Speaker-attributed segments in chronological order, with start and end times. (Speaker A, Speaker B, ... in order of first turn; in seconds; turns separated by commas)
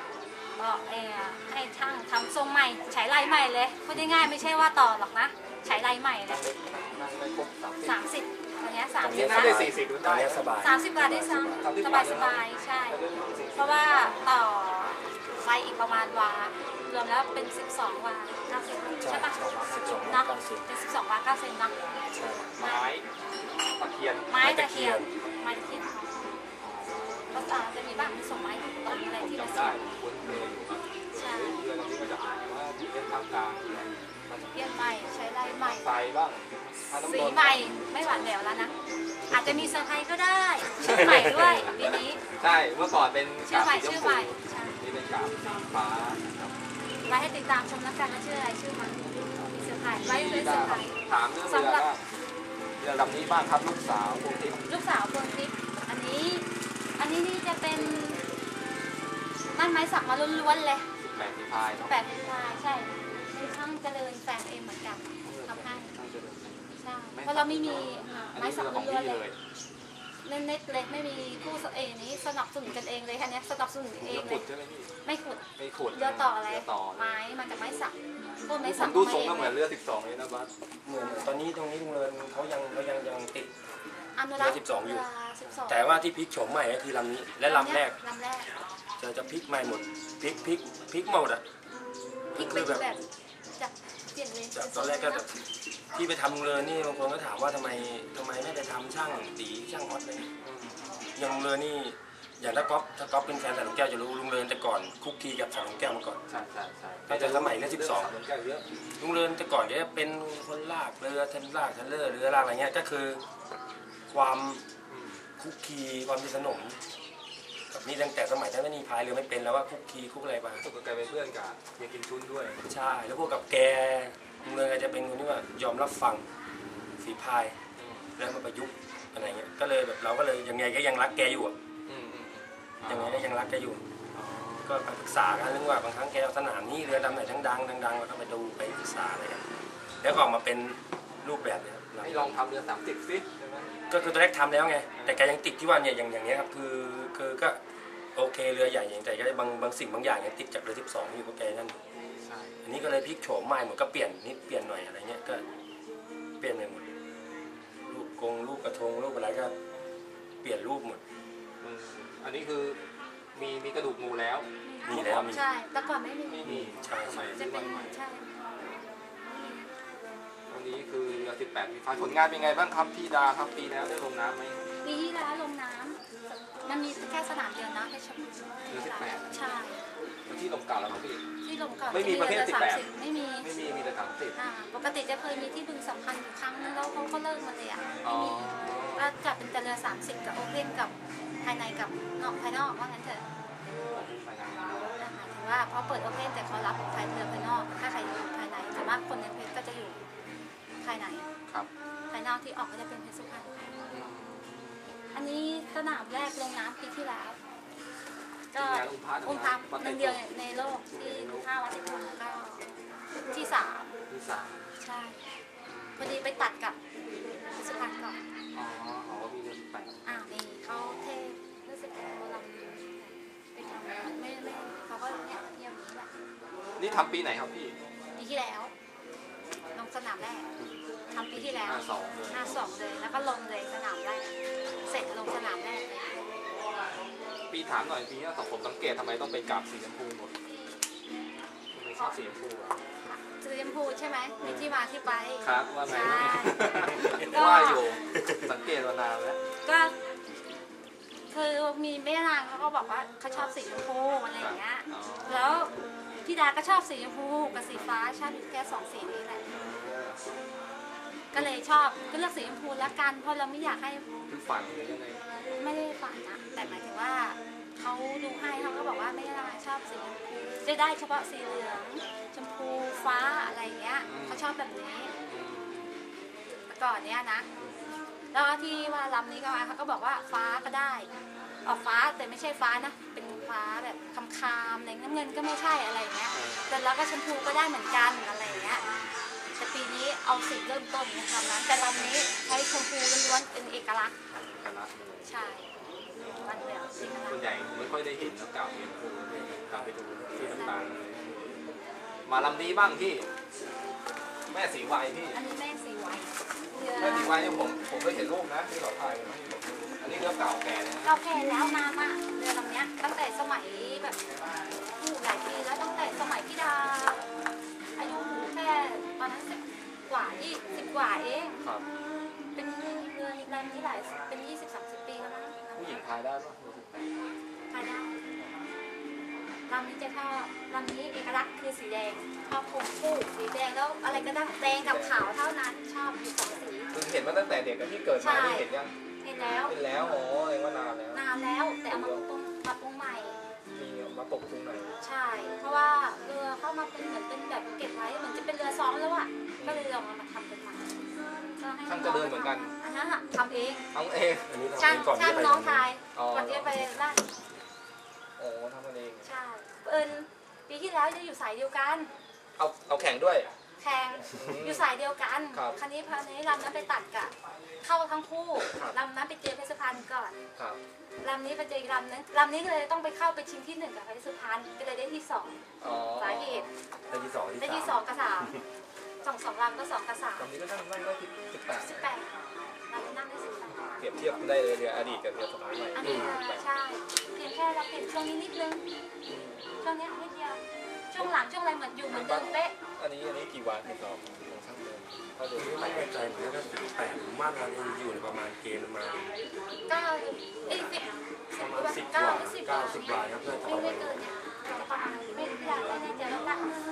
Speaker A: 0.6-6.4, Speaker B: 6.3-8.0, Speaker A: 7.8-9.7, Speaker C: 9.0-11.7, Speaker B: 9.1-10.5, Speaker A: 10.6-13.0, Speaker B: 11.6-14.3, Speaker A: 13.5-21.8, Speaker C: 19.0-20.7, Speaker C: 22.1-22.5, Speaker B: 22.6-23.1, Speaker A: 22.6-22.9, Speaker B: 23.8-24.4, Speaker A: 24.3-26.3, Speaker C: 24.4-25.1, Speaker B: 26.6-27.2, Speaker A: 27.3-29.8, Speaker B: 29.2-34.6, Speaker A: 31.1-31.7, Speaker A: 34.5-36.0, Speaker B: 35.6-37.9, Speaker A: 36.9-38.8, Speaker B: 39.2-39.7, Speaker A: 39.3-42.2, Speaker B: 40.7-46.5, Speaker A: 43.5-44.8, Speaker A: 47.0-49.0, Speaker B: 49.3-52.0, Speaker A: 49.5-51.9, Speaker B: 52.8-54.7, Speaker A: 54.7-56.5, Speaker A: 57.0-58.2, Speaker A: 59.5-60.9, Speaker B: 61.0-61.9, Speaker A: 61.9-65.9, Speaker B: 65.2-69.4, Speaker A: 66.8-69.2, Speaker A: 70.2-74.5, Speaker B: 74.0-74.9, Speaker A: 75.0-79.6, Speaker B: 75.6-77.2, Speaker B: 78.6-80.5, Speaker C: 80.8-83.5, Speaker A: 84.2-85.9, Speaker C: 84.4-85.1, Speaker C: 85.7-88.0, Speaker A: 87.5-88.6, Speaker C: 89.0-91.4, Speaker B: 90.3-90.5, Speaker B: 92.3-92.7, Speaker C: 92.3-92.9, Speaker A: 92.3-93.0, Speaker A: 93.6-95.2, Speaker C: 94.5-100.3, Speaker B: 100.4-101.0, Speaker C: 101.2-106.2, Speaker B: 106.3-108.7, Speaker C: 107.1-108.2, Speaker C: 109.0-113.2, Speaker C: 114.1-114.7, Speaker B: 114.9-115.2, Speaker C: 115.4-116.8, Speaker C: 117.7-120.7, Speaker B: 120.6-122.6, Speaker C: 122.7-126.3, Speaker B: 126.6-126.9, Speaker C: 127.0-127.6, Speaker B: 127.8-128.1, Speaker C: 128.2-131.6, Speaker B: 131.9-133.4, Speaker C: 132.9-133.8, Speaker B: 134.1-134.8, Speaker C: 134.7-139.5, Speaker C: 140.0-142.4, Speaker B: 142.0-144.2, Speaker C: 143.9-147.6, Speaker B: 144.9-145.3, Speaker C: 148.2-151.8, Speaker B: 152.2-152.6, Speaker C: 152.6-155.4, Speaker C: 156.4-156.9, Speaker B: 157.4-157.7, Speaker C: 157.9-159.6, Speaker C: 160.4-161.0, Speaker B: 161.6-162.8, Speaker B: 163.3-165.4, Speaker A: 164.7-166.5, Speaker C: 164.8-165.4, Speaker B: 166.3-168.0, Speaker C: 166.4-167.4, Speaker A: 167.3-168.3, Speaker A: 169.2-169.7, Speaker B: 170.5-174.6, Speaker A: 174.8-176.0, Speaker A: 176.6-179.8, Speaker B: 178.7-179.4, Speaker B: 180.3-181.2, Speaker A: 181.4-183.5, Speaker B: 181.9-182.9, Speaker B: 183.4-184.4, Speaker A: 184.3-193.2, Speaker B: 188.0-189.1, Speaker B: 193.8-194.9, Speaker A: 195.0-200.0, Speaker A: 200.8-201.3, Speaker A: 202.1-203.8, Speaker B: 203.9-204.8, Speaker A: 205.1-207.4, Speaker A: 208.5-212.7, Speaker B: 208.6-210.2, Speaker B: 210.9-211.5, Speaker A: 213.3-213.9, Speaker B: 214.1-214.8, Speaker A: 214.8-215.2, Speaker B: 215.7-216.2, Speaker A: 216.0-216.8, Speaker A: 217.6-218.2, Speaker B: 218.5-220.2, Speaker A: 220.1-226.1, Speaker B: 226.8-227.8, Speaker A: 228.2-228.7, Speaker A: 229.7-230.5, Speaker A: 231.1-234.3, Speaker B: 231.3-232.7, Speaker B: 234.7-235.2, Speaker A: 234.8-236.1, Speaker B: 237.5-240.3, Speaker B: 241.7-242.8, Speaker A: 243.0-248.0, Speaker B: 244.4-244.8, Speaker B: 245.4-249.4, Speaker A: 249.7-249.9, Speaker A: 251.3-259.4, Speaker B: 254.4-255.7, Speaker B: 257.6-257.9, Speaker B: 259.5-260.3, Speaker A: 261.3-264.1, Speaker B: 264.3-265.2, Speaker A: 265.5-275.1, Speaker B: 266.6-266.9, Speaker B: 274.0-274.5, Speaker B: 275.3-275.9, Speaker A: 276.7-277.5, Speaker B: 277.6-278.0, Speaker A: 278.3-281.1, Speaker A: 281.6-288.8, Speaker B: 286.3-286.8, Speaker B: 288.4-289.1, Speaker A: 289.6-294.1, Speaker B: 291.9-292.3, Speaker B: 294.3-295.3, Speaker A: 295.2-295.7, Speaker B: 296.2-296.7, Speaker A: 296.3-297.5, Speaker B: 297.3-301.5, Speaker A: 300.4-300.9, Speaker B: 302.3-303.3, Speaker B: 304.5-305.4, Speaker A: 305.3-307.4, Speaker B: 307.0-311.2, Speaker A: 311.0-314.2, Speaker A: 315.0-317.2, Speaker A: 318.0-321.6, Speaker A: 322.6-326.0, Speaker B: 325.8-327.2, Speaker A: 327.7-328.1, Speaker A: 329.7-336.9, Speaker B: 334.0-335.3, Speaker B: 336.9-338.9, Speaker A: 338.2-338.7, Speaker A: 339.2-339.8, Speaker B: 339.7-341.2, Speaker A: 341.1-343.4, Speaker B: 341.9-342.2, Speaker B: 343.8-345.0, Speaker A: 345.0-351.0, Speaker B: 349.6-350.0, Speaker A: 351.6-353.9, Speaker B: 351.9-352.7, Speaker B: 353.9-354.5, Speaker C: 354.5-355.9, Speaker A: 354.8-357.3, Speaker B: 356.1-357.2, Speaker B: 358.4-359.3, Speaker A: 359.2-362.1, Speaker B: 362.6-363.5, Speaker A: 363.8-370.4, Speaker B: 364.3-364.9, Speaker B: 365.5-365.8, Speaker B: 368.7-369.0, Speaker A: 371.2-375.6, Speaker B: 375.8-376.7, Speaker A: 376.1-376.7, Speaker C: 377.1-378.6, Speaker A: 377.6-378.6, Speaker A: 379.2-380.5, Speaker B: 380.4-382.1, Speaker A: 381.7-384.0, Speaker B: 384.0-386.6, Speaker A: 385.9-388.9, Speaker C: 386.0-386.4, Speaker B: 389.3-389.7, Speaker A: 389.8-390.6, Speaker A: 391.1-392.8, Speaker B: 392.1-396.1, Speaker C: 395.6-399.3, Speaker A: 399.9-406.8, Speaker C: 401.6-404.2